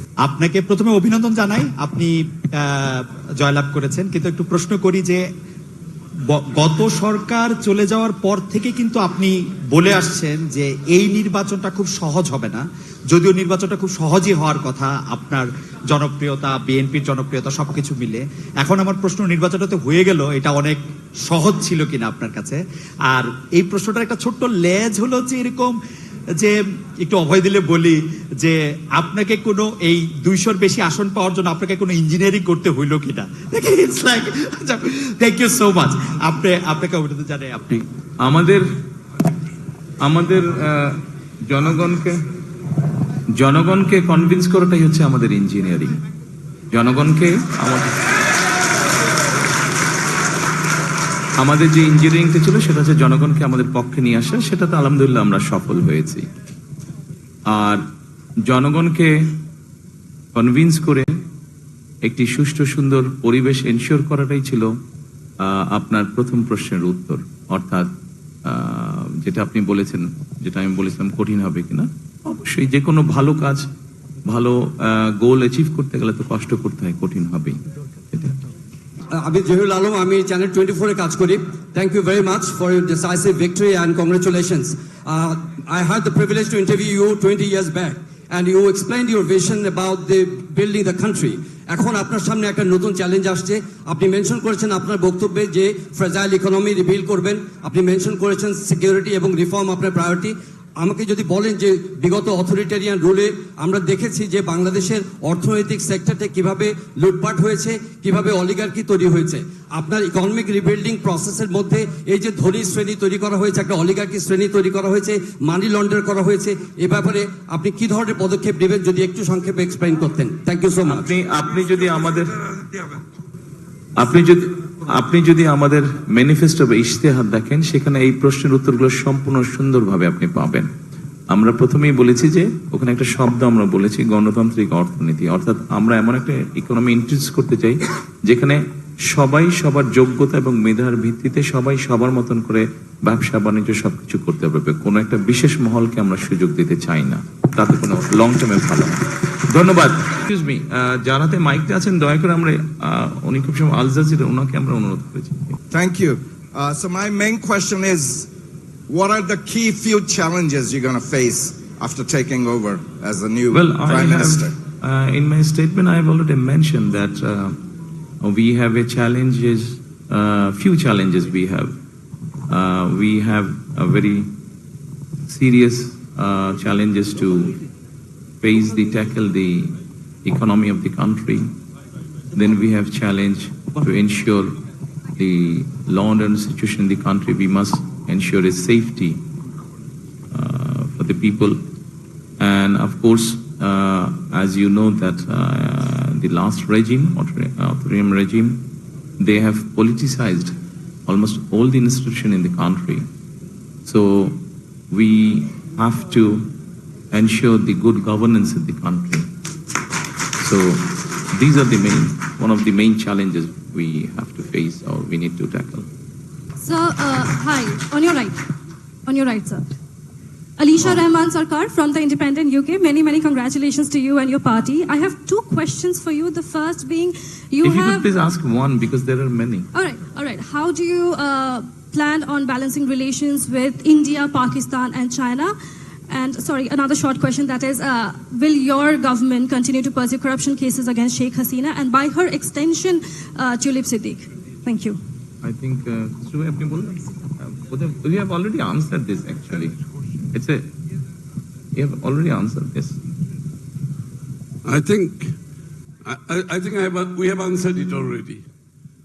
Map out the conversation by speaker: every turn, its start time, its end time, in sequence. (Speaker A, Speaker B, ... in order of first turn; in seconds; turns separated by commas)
Speaker A: 0.2-5.2, Speaker A: 6.3-22.6, Speaker A: 23.1-25.8, Speaker A: 26.4-37.8, Speaker B: 38.2-38.6, Speaker B: 40.0-41.0, Speaker B: 41.5-42.2, Speaker B: 43.4-46.0, Speaker B: 46.7-47.9, Speaker B: 51.4-56.2, Speaker B: 57.5-57.8, Speaker B: 58.5-59.3, Speaker B: 60.3-61.1, Speaker B: 62.0-64.7, Speaker B: 65.4-67.9, Speaker B: 68.4-73.6, Speaker B: 74.3-77.6, Speaker B: 78.1-78.4, Speaker C: 79.1-121.1, Speaker B: 120.8-122.6, Speaker B: 124.0-130.7, Speaker B: 131.3-155.6, Speaker D: 155.7-158.3, Speaker D: 158.9-164.5, Speaker B: 163.5-167.6, Speaker B: 168.2-171.7, Speaker B: 172.5-174.3, Speaker B: 175.3-177.5, Speaker B: 178.4-179.7, Speaker B: 180.2-181.4, Speaker B: 182.3-184.6, Speaker B: 185.2-189.2, Speaker B: 190.3-191.6, Speaker B: 192.4-198.6, Speaker B: 199.2-200.5, Speaker B: 201.1-203.0, Speaker B: 203.8-204.4, Speaker B: 204.9-206.5, Speaker B: 207.1-209.3, Speaker B: 210.4-215.8, Speaker E: 216.6-218.4, Speaker E: 219.1-219.6, Speaker E: 220.6-228.1, Speaker B: 227.6-229.7, Speaker E: 229.7-235.5, Speaker E: 236.1-245.0, Speaker B: 245.4-249.7, Speaker B: 250.3-250.7, Speaker B: 251.7-253.0, Speaker F: 254.6-255.3, Speaker F: 256.0-258.4